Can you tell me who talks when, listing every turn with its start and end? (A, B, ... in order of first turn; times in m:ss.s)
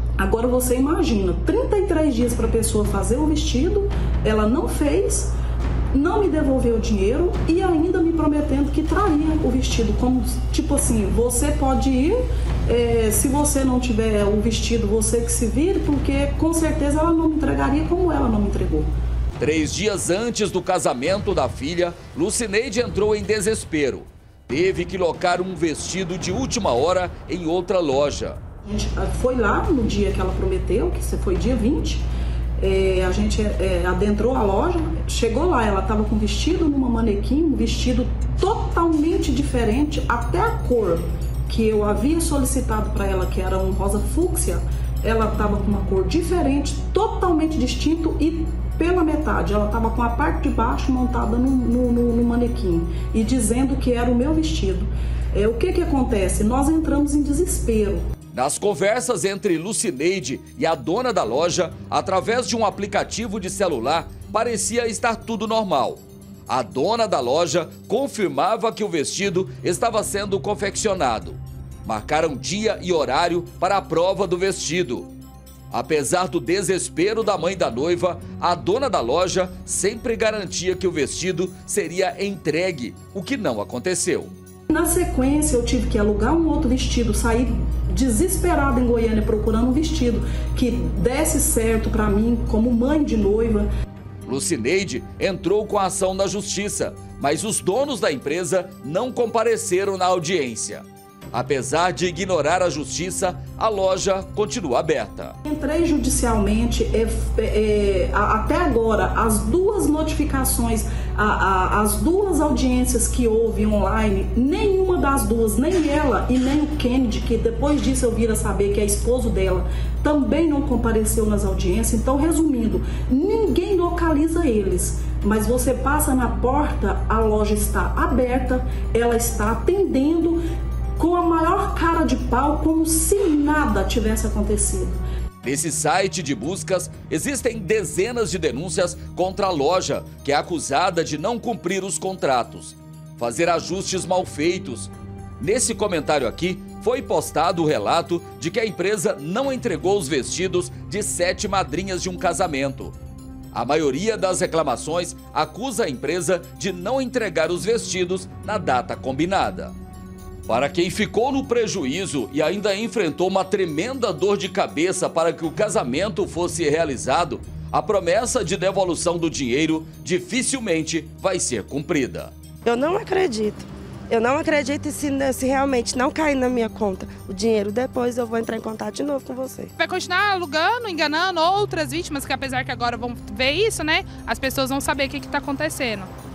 0:00.2-0:05.3 A
0:05.9-0:18.9 A
0:19.4-0:28.4 B
0:28.6-0:32.1 A
0:32.6-0:58.0 A
0:58.3-1:15.1 B
1:15.7-1:24.3 B
1:24.7-1:33.7 A
1:34.2-1:45.4 B
1:45.4-2:10.4 A
2:11.0-2:15.0 A
2:15.4-2:33.0 B
2:33.5-2:39.8 B
2:40.5-2:52.3 B
2:52.7-2:59.7 C
2:59.8-3:06.1 D